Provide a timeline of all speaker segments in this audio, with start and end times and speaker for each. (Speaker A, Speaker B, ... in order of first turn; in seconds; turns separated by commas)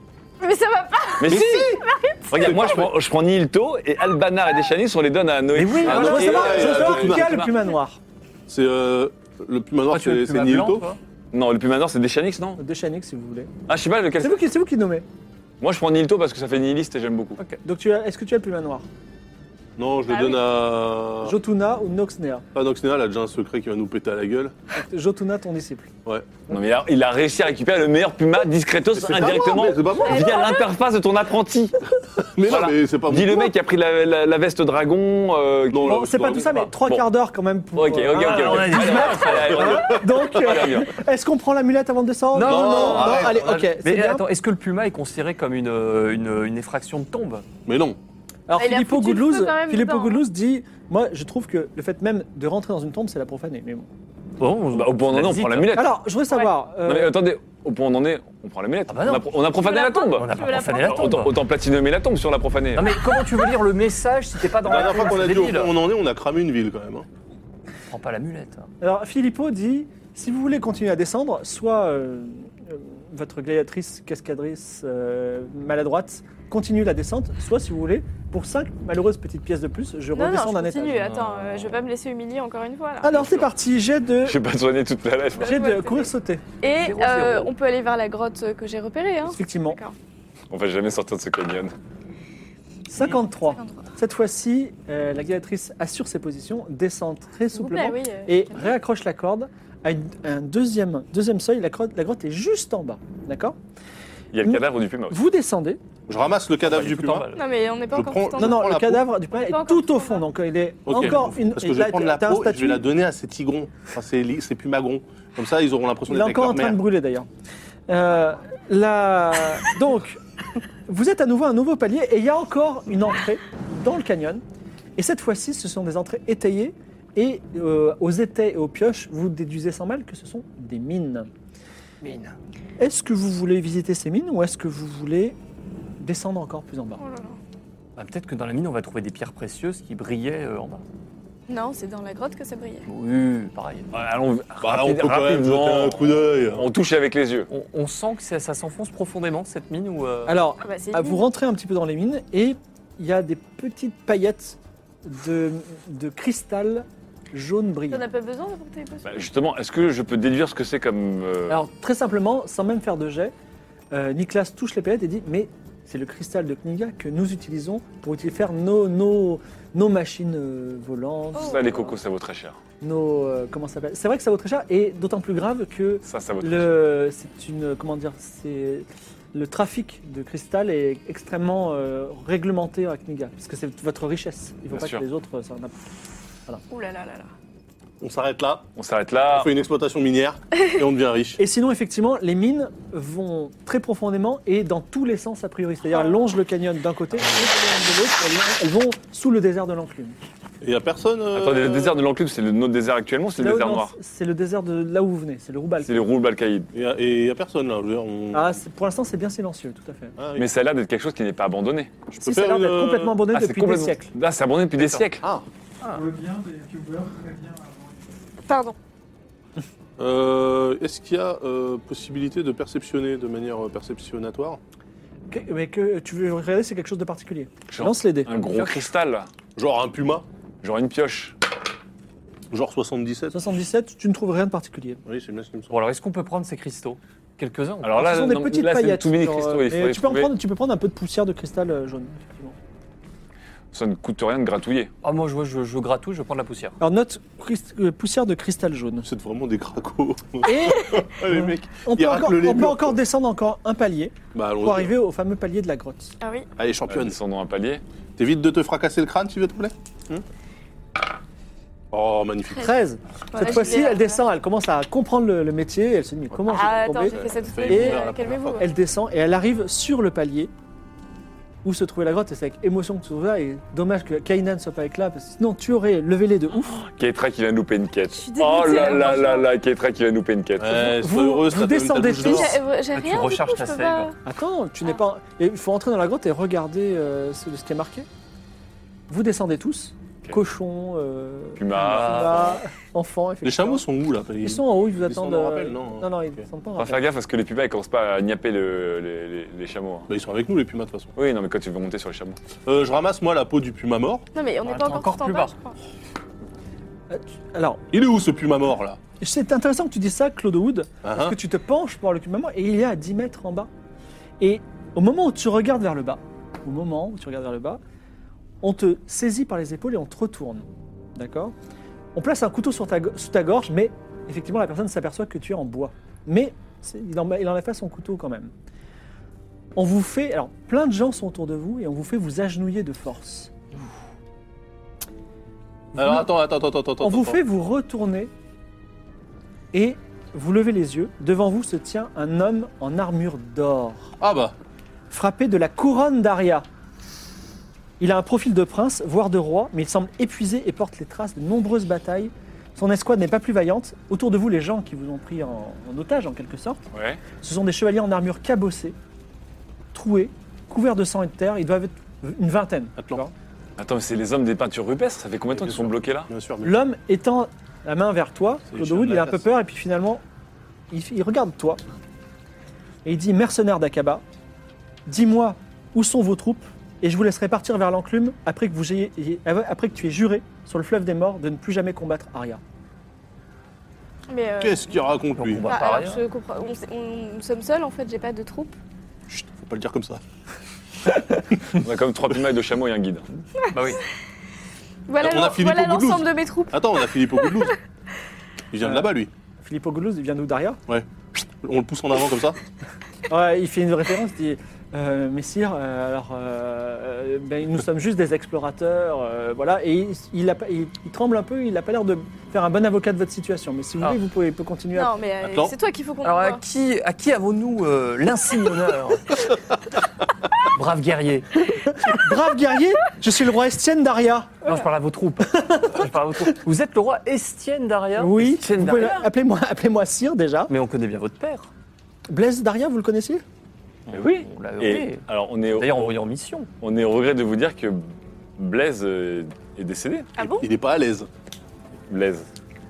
Speaker A: 0.4-2.5, Speaker B: 1.2-1.8, Speaker C: 1.3-1.7, Speaker B: 2.3-7.7, Speaker C: 2.4-2.9, Speaker D: 5.6-8.0, Speaker E: 5.6-6.3, Speaker C: 5.8-7.3, Speaker C: 8.5-10.8, Speaker E: 9.9-11.0, Speaker B: 11.3-12.6, Speaker D: 12.6-13.5, Speaker B: 13.7-14.5, Speaker D: 14.2-15.0, Speaker B: 15.6-17.4, Speaker D: 17.6-18.9, Speaker C: 19.8-21.3, Speaker A: 20.1-20.4, Speaker D: 21.2-22.4, Speaker C: 22.5-24.5, Speaker D: 24.7-25.9, Speaker C: 26.0-26.4, Speaker B: 26.5-31.8, Speaker C: 28.9-30.5, Speaker A: 30.0-30.7, Speaker C: 32.3-33.5, Speaker B: 32.5-37.0, Speaker C: 35.7-36.5, Speaker D: 35.8-44.2, Speaker B: 37.7-40.9, Speaker E: 38.1-39.8, Speaker C: 39.4-40.7, Speaker E: 42.3-47.5, Speaker C: 42.4-43.4, Speaker C: 47.6-48.0, Speaker D: 48.5-53.9, Speaker A: 48.5-50.2, Speaker E: 54.4-55.8, Speaker B: 54.7-56.0, Speaker D: 55.7-57.1, Speaker B: 56.8-63.0, Speaker E: 58.9-59.4, Speaker A: 59.5-61.3, Speaker E: 60.0-61.4, Speaker E: 62.7-65.7, Speaker C: 64.6-67.0, Speaker E: 67.9-68.7, Speaker D: 68.8-81.1, Speaker A: 80.1-83.1, Speaker B: 81.1-81.6, Speaker D: 83.0-84.4, Speaker B: 83.1-83.5, Speaker B: 84.2-85.6, Speaker D: 85.4-86.4, Speaker A: 85.4-89.9, Speaker E: 86.8-87.5, Speaker D: 89.2-89.8, Speaker B: 90.5-91.7, Speaker D: 92.9-103.5, Speaker A: 93.5-93.8, Speaker A: 97.5-98.7, Speaker B: 104.3-105.2, Speaker D: 104.4-105.8, Speaker C: 106.1-107.3, Speaker E: 106.6-107.4, Speaker A: 107.3-108.7, Speaker C: 107.9-109.1, Speaker D: 108.4-112.8, Speaker A: 109.3-110.2, Speaker C: 110.8-116.8, Speaker D: 116.1-117.3, Speaker D: 117.9-120.2, Speaker D: 120.9-124.4, Speaker D: 125.0-131.3, Speaker E: 132.0-132.3, Speaker D: 132.8-135.3, Speaker D: 136.0-137.0, Speaker A: 137.0-137.4, Speaker E: 137.9-140.8, Speaker A: 141.5-142.8, Speaker E: 142.8-143.9, Speaker B: 143.9-147.5, Speaker C: 144.6-146.7, Speaker E: 147.5-150.4, Speaker D: 150.3-158.1, Speaker A: 150.6-151.2, Speaker A: 157.9-159.2, Speaker B: 159.0-161.6, Speaker D: 161.5-163.3, Speaker D: 163.9-171.9, Speaker A: 171.3-171.7, Speaker B: 171.4-172.6, Speaker D: 172.8-185.7, Speaker B: 176.0-176.8, Speaker B: 184.7-185.0, Speaker A: 186.7-187.3, Speaker C: 188.0-188.7, Speaker B: 188.8-189.5, Speaker C: 189.2-191.4, Speaker D: 191.4-200.2, Speaker C: 200.6-202.0, Speaker B: 201.3-203.9, Speaker D: 203.4-206.1, Speaker B: 205.8-206.7, Speaker C: 206.7-208.6, Speaker D: 208.3-210.2, Speaker C: 210.2-210.5, Speaker B: 210.3-211.9, Speaker C: 212.1-213.2, Speaker D: 212.2-214.1, Speaker B: 213.3-215.2, Speaker E: 214.8-215.1, Speaker F: 215.9-218.1, Speaker A: 218.5-218.7, Speaker C: 220.0-224.6, Speaker D: 225.3-228.3, Speaker B: 227.7-229.3, Speaker E: 228.5-228.8, Speaker C: 229.6-230.2, Speaker B: 230.6-231.3, Speaker C: 232.5-233.3, Speaker D: 233.3-235.0, Speaker C: 235.1-235.7, Speaker E: 235.7-238.0, Speaker B: 237.8-240.3, Speaker D: 237.9-242.6, Speaker B: 243.7-244.9, Speaker E: 245.0-246.8, Speaker D: 246.8-249.1, Speaker C: 249.0-252.9, Speaker D: 250.4-256.1, Speaker C: 254.3-254.9, Speaker A: 256.2-256.5, Speaker C: 256.6-257.2, Speaker B: 256.9-257.8, Speaker C: 258.2-260.2, Speaker C: 261.9-262.8, Speaker D: 262.6-268.0, Speaker A: 263.3-264.2, Speaker C: 263.4-263.8, Speaker A: 266.5-268.6, Speaker C: 267.2-268.6, Speaker D: 268.6-270.5, Speaker D: 271.6-276.8, Speaker B: 276.8-280.9, Speaker A: 278.1-279.5, Speaker C: 280.6-282.6, Speaker D: 280.8-282.6, Speaker A: 282.1-284.1, Speaker E: 282.9-284.1, Speaker D: 284.2-288.1, Speaker D: 289.1-293.8, Speaker B: 291.6-292.6, Speaker E: 291.8-292.5, Speaker C: 293.4-296.4, Speaker D: 294.4-297.0, Speaker B: 296.8-300.1, Speaker C: 300.1-301.1, Speaker B: 301.1-302.4, Speaker C: 302.6-304.2, Speaker A: 304.3-305.8, Speaker E: 304.6-305.6, Speaker D: 307.1-307.8, Speaker C: 307.9-309.0, Speaker D: 309.2-313.7, Speaker C: 311.0-311.3, Speaker D: 314.4-317.8, Speaker D: 318.6-321.5, Speaker D: 322.1-328.5, Speaker D: 329.8-333.6, Speaker D: 335.9-336.3, Speaker C: 336.0-337.4, Speaker D: 337.0-338.3, Speaker D: 339.7-344.1, Speaker C: 344.2-344.5, Speaker D: 345.1-346.6, Speaker D: 348.0-356.8, Speaker B: 356.9-357.2, Speaker D: 357.4-358.9, Speaker D: 359.9-363.3, Speaker B: 363.8-366.3, Speaker C: 365.6-366.7, Speaker D: 366.6-370.2, Speaker C: 368.7-369.4, Speaker D: 370.9-371.8, Speaker D: 373.0-374.2, Speaker D: 375.1-382.6, Speaker A: 384.3-385.1, Speaker C: 384.6-385.7, Speaker E: 385.3-386.2, Speaker A: 385.6-388.7, Speaker C: 389.3-390.2, Speaker B: 391.8-393.4, Speaker A: 393.6-394.0, Speaker E: 393.7-394.0, Speaker A: 395.1-397.7, Speaker C: 395.2-397.8, Speaker C: 398.7-399.3, Speaker D: 398.8-399.1, Speaker D: 399.6-400.8, Speaker C: 401.6-402.6, Speaker D: 403.3-415.1, Speaker A: 414.9-416.6, Speaker C: 415.4-415.7, Speaker E: 416.2-419.4, Speaker E: 420.7-421.5, Speaker D: 421.7-424.8, Speaker E: 424.6-429.3, Speaker D: 425.5-426.0, Speaker D: 428.2-430.7, Speaker E: 430.7-431.7, Speaker D: 432.3-433.4, Speaker E: 434.1-436.7, Speaker B: 434.1-436.1, Speaker B: 436.8-440.3, Speaker A: 440.4-440.7, Speaker C: 440.4-441.3, Speaker B: 442.1-442.5